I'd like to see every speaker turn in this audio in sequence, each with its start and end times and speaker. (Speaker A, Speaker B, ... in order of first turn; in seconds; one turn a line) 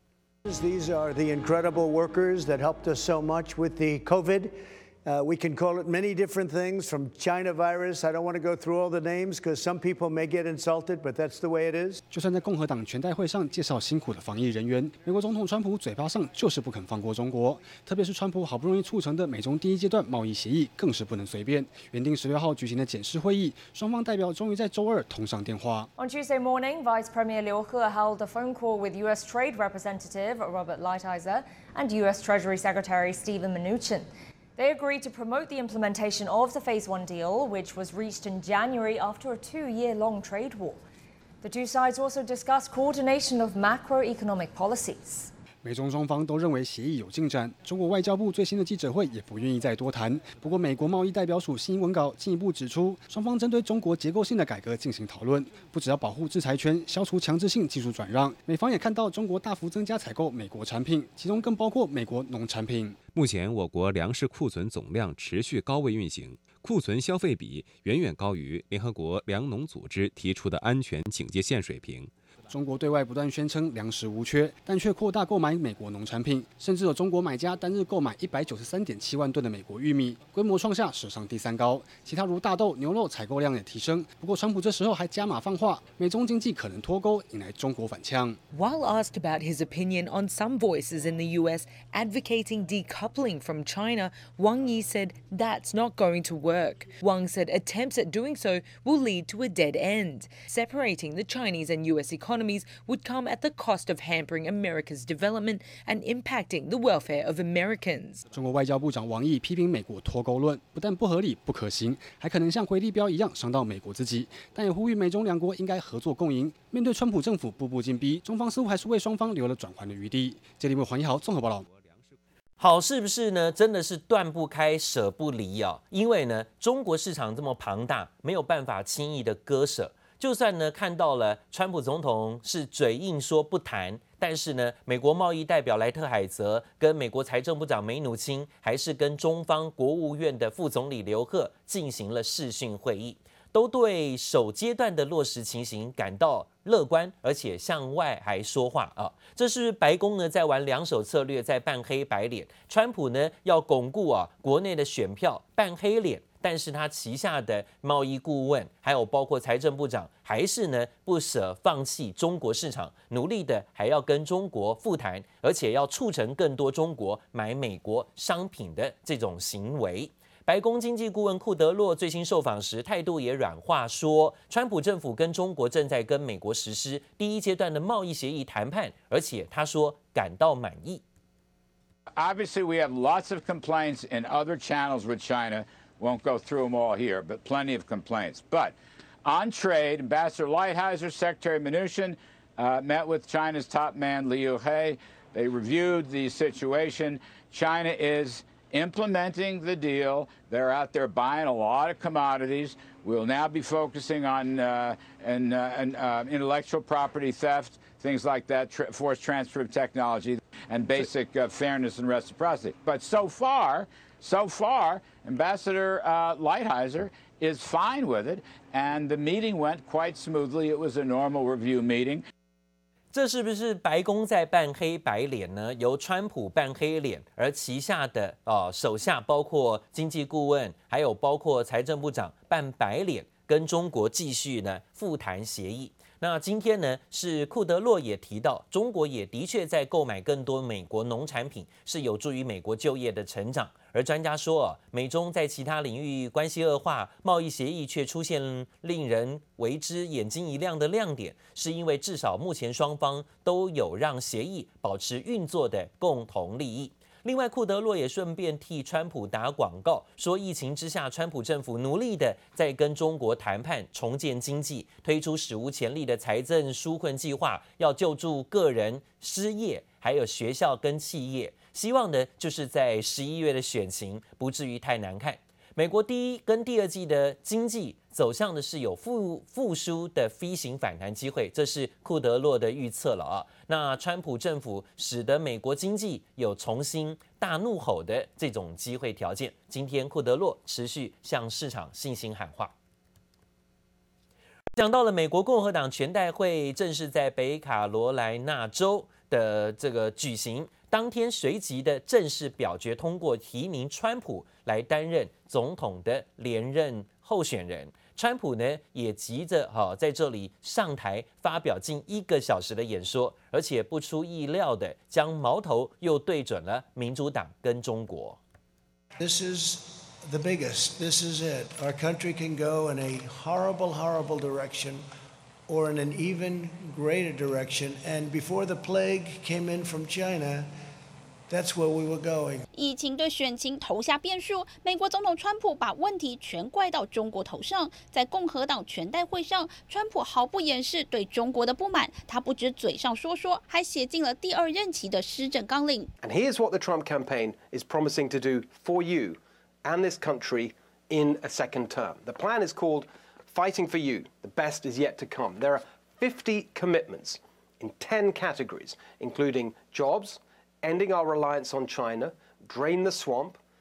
Speaker A: 0.5-4.5
Speaker A: 5.0-12.0
Speaker B: 12.1-25.9
Speaker C: 26.0-40.8
Speaker C: 41.4-45.3
Speaker B: 45.6-63.0
Speaker D: 63.1-72.1
Speaker B: 72.5-88.4
Speaker E: 88.5-108.2
Speaker B: 108.3-121.7
Speaker D: 121.5-122.2
Speaker F: 122.6-181.0
Speaker G: 182.2-222.2
Speaker F: 223.1-292.7
Speaker F: 294.8-318.4
Speaker A: 319.2-325.0
Speaker A: 325.7-330.7
Speaker A: 331.5-332.6
Speaker H: 332.7-346.1
Speaker I: 346.2-363.6